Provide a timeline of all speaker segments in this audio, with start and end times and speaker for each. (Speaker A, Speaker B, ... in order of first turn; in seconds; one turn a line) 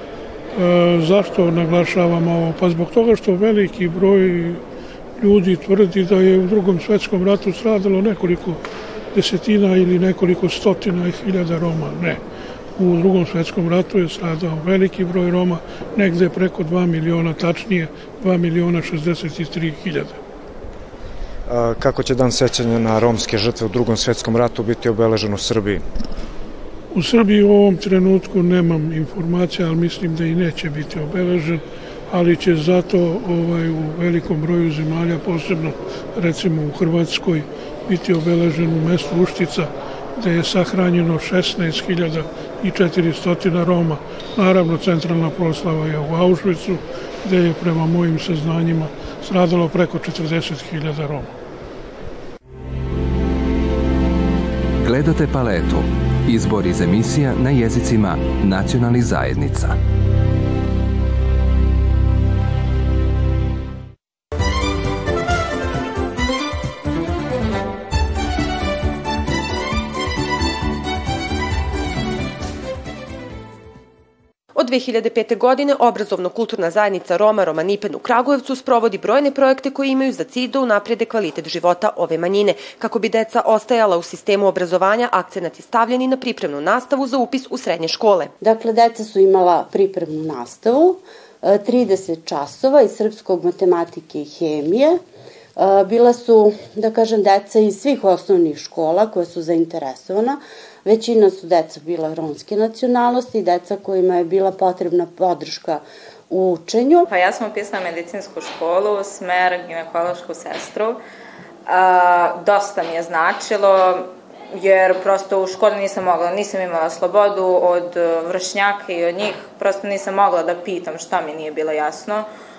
Speaker A: 0.5-4.6
Speaker A: 5.2-8.6
Speaker A: 9.1-12.2
Speaker A: 12.8-20.2
Speaker B: 21.5-25.8
Speaker A: 26.9-51.3
Speaker C: 54.8-59.8
Speaker D: 74.5-88.3
Speaker E: 88.4-95.0
Speaker E: 95.6-107.1
Speaker F: 107.1-111.0
Speaker F: 111.7-122.3